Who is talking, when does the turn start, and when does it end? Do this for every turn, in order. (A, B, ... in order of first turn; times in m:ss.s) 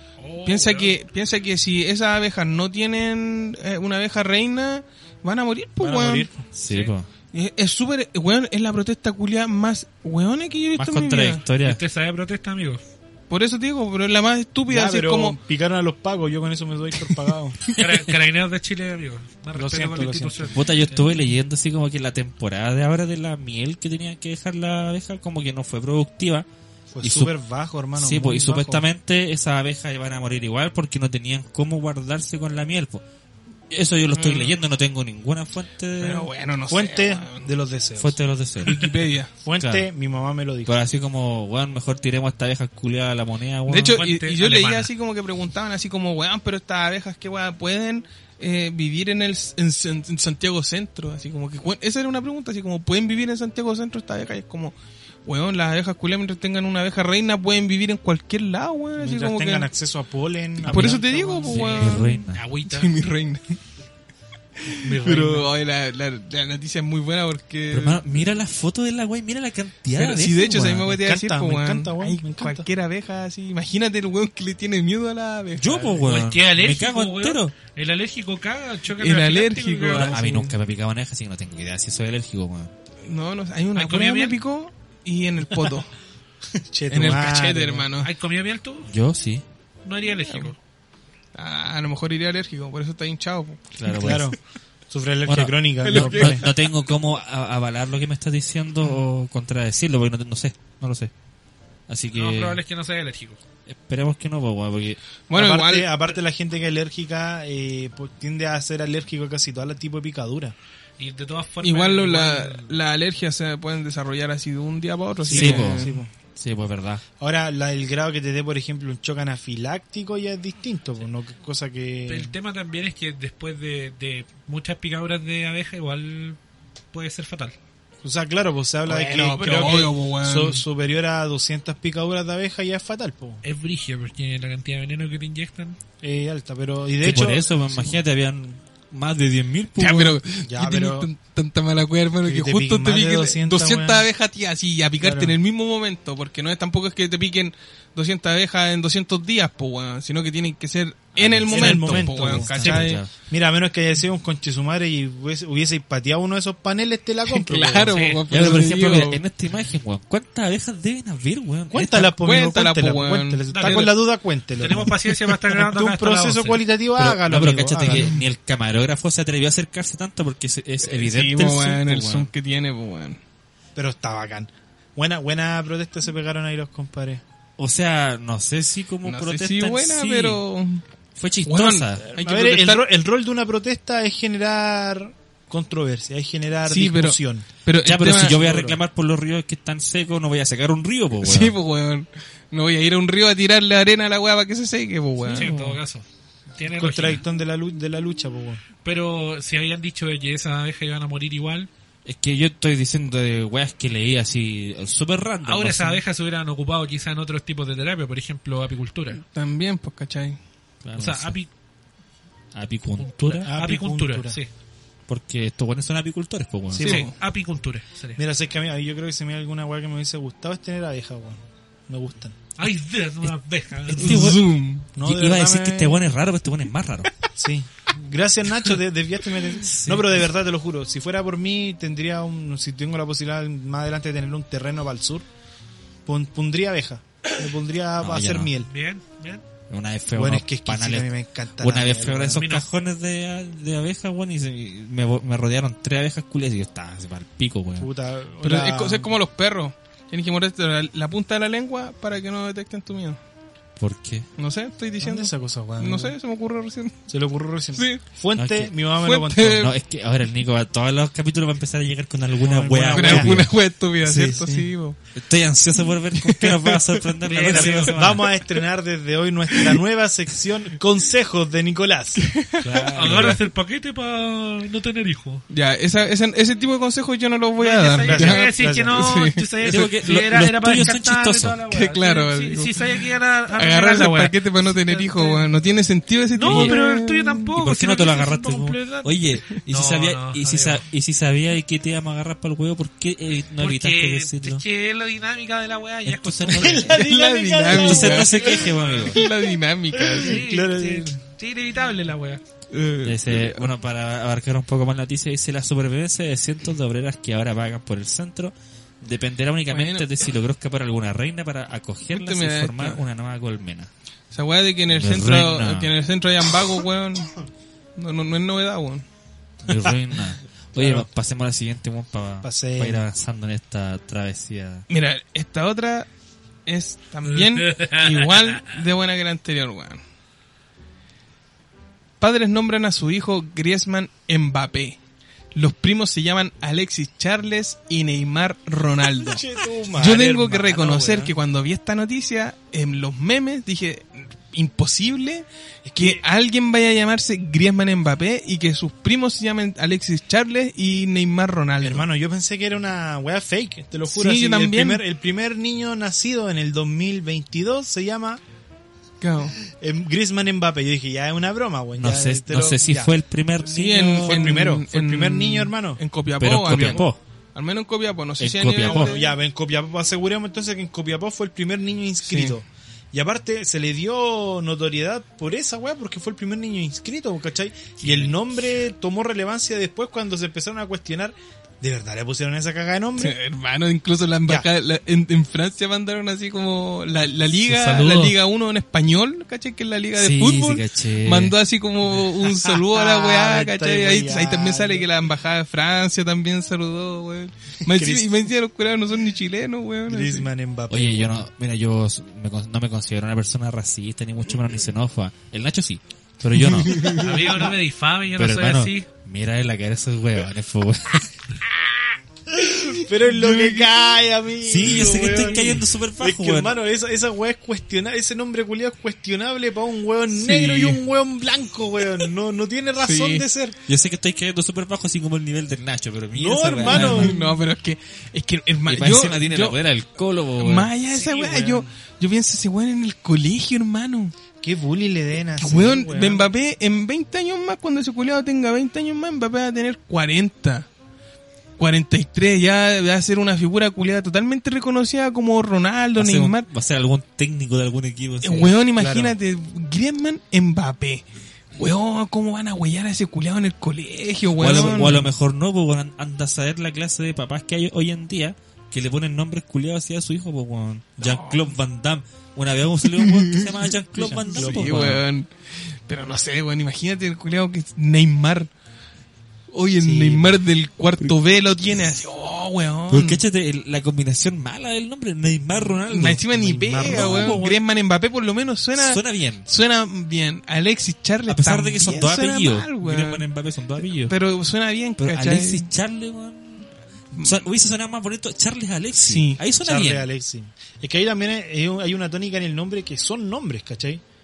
0:00.2-0:01.0 A
0:00.4-0:06.3 B
0:05.8-0:06.4 C
0:06.5-0:07.1 D
0:06.6-0:06.9 A
0:07.3-0:11.4 B
0:10.8-0:11.8 D
0:11.6-0:12.8 A
0:13.3-0:15.4 B
0:14.7-0:17.6 C
0:17.7-0:21.0 A
0:19.5-0:20.6 C
0:20.5-0:26.5 D
0:26.9-0:28.8 C
0:27.0-0:27.4 D
0:27.9-0:33.0 D
0:33.7-0:36.3 D
0:34.1-0:34.5 B
0:36.0-0:37.5 B
0:36.7-0:38.2 C
0:38.0-0:38.9 D
0:38.6-0:39.3 B
0:39.4-0:40.8 C
0:39.6-0:39.9 D
0:40.6-0:44.0 D
0:43.7-0:59.7 B
0:43.9-0:44.9 A
0:59.0-1:02.0 C
1:00.6-1:02.4 D
1:00.7-1:03.6 B
1:01.7-1:02.9 A
1:04.6-1:08.0 B
1:04.8-1:05.4 C
1:07.7-1:10.9 D
1:09.9-1:16.0 B
1:10.6-1:12.7 C
1:15.6-1:17.5 D
1:16.0-1:20.2 A
1:19.0-1:20.5 B
1:19.9-1:22.7 D
1:23.0-1:25.9 B
1:23.7-1:24.4 A
1:26.6-1:27.9 C
1:26.9-1:28.1 B
1:28.0-1:28.9 A
1:28.9-1:29.4 D
1:29.8-1:30.6 A
1:30.3-1:30.5 B
1:31.3-1:33.7 B
1:33.8-1:34.3 D
1:33.9-1:34.4 C
1:34.9-1:36.5 C
1:35.2-1:41.1 D
1:35.8-1:36.5 B
1:41.9-1:42.6 D
1:42.1-1:43.4 A
1:43.6-1:45.0 D
1:45.3-1:46.1 B
1:45.3-1:50.5 C
1:51.0-1:52.8 A
1:51.6-1:56.0 B
1:55.2-1:56.1 C
1:55.2-1:57.0 D
1:57.2-2:02.3 C
2:02.1-2:06.4 A
2:06.9-2:07.6 A
2:08.0-2:13.4 C
2:08.8-2:10.6 B
2:13.4-2:15.8 A
2:16.0-2:17.9 C
2:17.0-2:20.2 D
2:19.8-2:33.1 B
2:20.4-2:21.1 C
2:22.2-2:24.1 C
2:25.0-2:25.4 C
2:31.1-2:33.1 D
2:31.5-2:38.0 C
2:37.3-2:39.2 B
2:37.9-2:38.2 A
2:38.3-2:42.1 D
2:41.7-2:48.2 C
2:42.1-2:43.8 B
2:43.5-2:46.6 A
2:47.0-2:52.3 D
2:47.8-2:48.2 B
2:50.8-2:53.2 B
2:53.8-2:57.2 C
2:57.6-3:00.4 D
2:59.0-3:00.8 B
3:01.2-3:02.1 D
3:01.4-3:02.9 B
3:02.1-3:08.8 C
3:06.6-3:08.4 B
3:07.8-3:11.6 D
3:11.2-3:15.5 B
3:15.2-3:16.0 A
3:15.2-3:15.8 D
3:16.6-3:17.2 A
3:16.7-3:18.6 C
3:18.8-3:21.7 A
3:22.0-3:26.0 D
3:25.4-3:29.2 A
3:29.2-3:30.4 B
3:30.8-3:31.4 D
3:31.0-3:31.5 A
3:32.5-3:33.5 D
3:33.0-3:34.5 A
3:33.4-3:34.4 C
3:35.1-3:37.1 D
3:36.8-3:37.2 B
3:36.8-3:38.2 A
3:38.2-3:42.4 C
3:42.6-3:44.4 A
3:43.9-3:44.4 D
3:44.0-3:44.9 B
3:44.9-3:46.0 C
3:45.0-3:47.1 D
3:47.4-3:55.2 C
3:49.6-3:50.2 D
3:56.0-3:58.7 C
3:58.0-3:58.5 D
3:58.6-3:59.4 A
3:59.7-4:07.9 D
4:00.1-4:02.4 C
4:02.3-4:02.6 A
4:07.8-4:09.2 C
4:08.4-4:13.2 B
4:13.8-4:14.3 D
4:14.4-4:17.0 B
4:15.0-4:16.2 C
4:17.1-4:19.7 C
4:17.7-4:18.0 B
4:18.3-4:18.8 D
4:19.0-4:19.7 B
4:19.5-4:28.3 D
4:22.4-4:23.5 C
4:22.9-4:25.0 B
4:26.1-4:28.2 B
4:27.2-4:27.9 A
4:27.4-4:33.4 C
4:29.5-4:29.8 B
4:32.2-4:33.4 B
4:32.7-4:33.4 D
4:32.9-4:35.4 A
4:35.5-4:39.7 B
4:37.6-4:45.6 A
4:38.0-4:39.1 C
4:39.6-4:41.6 D
4:41.7-4:47.5 B
4:46.3-4:50.8 A
4:46.4-4:46.7 D
4:47.6-4:54.6 D
4:53.6-4:56.9 A
4:56.0-4:57.0 D
4:56.5-4:58.9 C
4:56.9-5:00.4 B
4:57.7-4:59.2 D
4:59.9-5:01.2 C
5:00.2-5:02.4 A
5:02.7-5:03.7 B
5:03.0-5:13.9 D
5:09.7-5:10.1 B
5:12.1-5:13.0 B
5:14.3-5:17.3 B
5:14.9-5:15.9 D
5:18.0-5:19.0 B
5:19.6-5:24.8 D
5:20.7-5:21.0 C
5:22.4-5:23.0 C
5:24.9-5:26.1 B
5:26.6-5:30.0 B
5:27.5-5:28.5 A
5:32.2-5:35.0 B
5:35.5-5:39.4 B
5:39.2-5:41.3 C
5:39.9-5:45.4 B
5:45.8-5:46.2 C
5:46.0-5:52.0 B
5:51.8-5:58.4 C
5:54.1-5:55.0 B
5:59.2-5:59.6 B
5:59.6-6:03.1 C
6:02.0-6:04.7 D
6:03.6-6:09.4 B
6:04.1-6:06.0 C
6:06.4-6:07.2 D
6:08.4-6:09.2 D
6:08.8-6:23.4 C
6:12.2-6:12.6 B
6:18.0-6:18.4 A
6:23.2-6:40.5 B
6:27.7-6:28.3 A
6:30.2-6:31.6 D
6:32.4-6:35.1 C
6:37.8-6:38.3 C
6:40.1-6:41.4 C
6:40.9-6:47.3 D
6:46.6-6:47.5 B
6:47.0-6:49.1 A
6:48.4-6:51.3 D
6:52.5-7:03.8 C
6:53.3-6:53.9 B
6:54.6-6:56.8 D
7:00.4-7:01.0 B
7:03.0-7:03.4 B
7:03.9-7:07.4 D
7:06.3-7:07.6 C
7:06.8-7:09.8 B
7:08.8-7:10.9 D
7:10.6-7:14.3 B
7:11.1-7:11.9 C
7:14.6-7:16.5 C
7:15.6-7:20.9 B
7:21.8-7:26.7 B
7:26.2-7:28.8 D
7:28.4-7:35.3 B
7:29.0-7:29.4 C
7:34.6-7:45.2 D
7:41.2-7:41.6 B
7:43.2-7:43.7 B
7:44.1-7:45.2 C
7:44.4-7:48.7 B
7:49.7-7:53.4 B
7:50.0-7:50.4 C
7:53.1-7:57.8 D
7:56.0-8:03.4 B
7:56.5-7:57.6 C
7:59.0-7:59.7 D
8:01.5-8:04.3 D
8:04.0-8:05.9 B
8:05.2-8:10.3 D
8:07.3-8:07.6 B
8:09.2-8:09.6 B
8:09.7-8:14.2 C